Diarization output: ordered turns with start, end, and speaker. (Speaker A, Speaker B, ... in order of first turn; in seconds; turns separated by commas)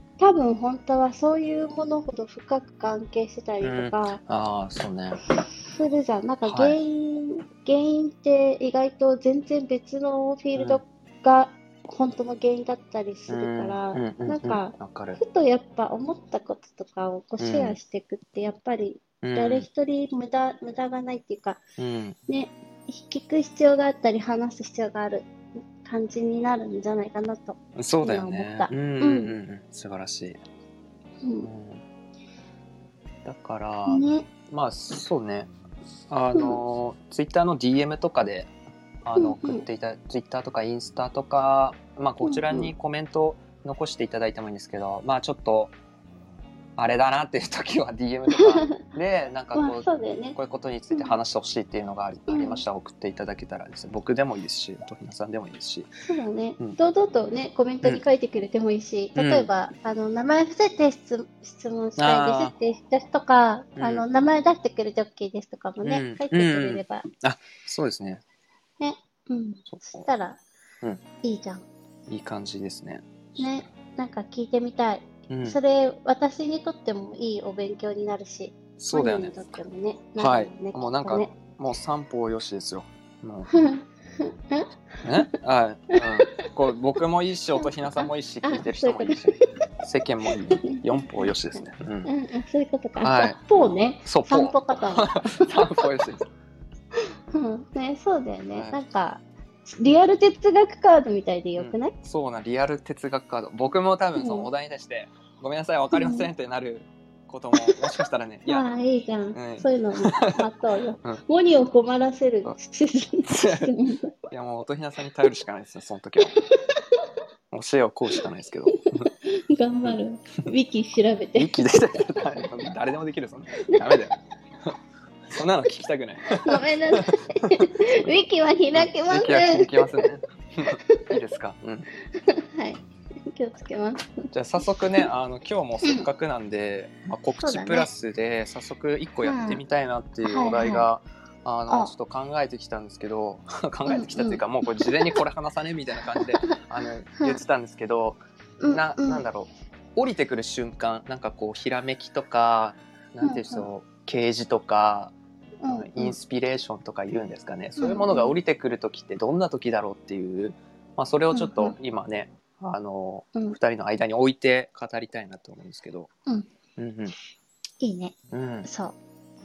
Speaker A: 0.2-4.2, Speaker B: 3.6-5.2, Speaker A: 5.4-21.6, Speaker B: 6.4-6.8, Speaker B: 10.5-10.8, Speaker B: 13.3-15.2, Speaker B: 17.4-17.8, Speaker B: 19.2-19.7, Speaker B: 21.8-22.2, Speaker A: 22.3-25.3, Speaker A: 25.8-29.3, Speaker B: 27.8-30.4, Speaker A: 31.2-31.5, Speaker B: 31.4-31.8, Speaker B: 33.2-35.5, Speaker A: 33.9-34.3, Speaker B: 36.1-38.5, Speaker A: 36.3-36.6, Speaker B: 39.0-45.7, Speaker A: 39.1-39.6, Speaker A: 42.2-42.7, Speaker B: 46.8-55.9, Speaker A: 48.3-48.8, Speaker A: 49.5-50.4, Speaker A: 50.9-51.2, Speaker A: 52.3-52.6, Speaker A: 56.0-67.0, Speaker B: 59.1-59.5, Speaker B: 62.0-62.5, Speaker B: 63.8-64.0, Speaker B: 65.8-68.2, Speaker A: 68.8-70.4, Speaker B: 69.7-70.1, Speaker A: 71.2-71.6, Speaker B: 72.1-73.5, Speaker A: 73.4-81.3, Speaker B: 75.3-75.6, Speaker B: 78.8-79.6, Speaker B: 80.2-83.5, Speaker A: 83.5-84.7, Speaker B: 85.0-92.1, Speaker A: 87.6-89.3, Speaker A: 90.5-91.3, Speaker A: 92.0-95.8, Speaker B: 93.0-96.2, Speaker A: 97.3-101.9, Speaker B: 101.6-108.6, Speaker A: 104.2-104.5, Speaker A: 105.9-106.3, Speaker A: 107.5-107.9, Speaker A: 108.5-114.1, Speaker B: 109.3-110.4, Speaker B: 113.2-113.7, Speaker B: 114.3-116.3, Speaker B: 117.5-119.1, Speaker A: 119.2-122.7, Speaker B: 121.3-124.7, Speaker A: 123.7-124.1, Speaker B: 125.3-127.5, Speaker A: 126.4-130.0, Speaker B: 128.7-131.9, Speaker A: 132.1-134.2, Speaker B: 134.3-155.2, Speaker A: 137.4-137.9, Speaker A: 139.2-139.6, Speaker A: 140.2-140.8, Speaker A: 141.7-141.9, Speaker A: 143.9-145.2, Speaker A: 146.1-146.6, Speaker A: 147.2-147.4, Speaker A: 148.6-149.3, Speaker A: 153.2-153.7, Speaker A: 155.6-156.2, Speaker B: 155.7-166.1, Speaker A: 157.8-158.3, Speaker A: 161.3-161.8, Speaker B: 166.8-167.2, Speaker A: 167.8-168.9, Speaker B: 168.3-168.7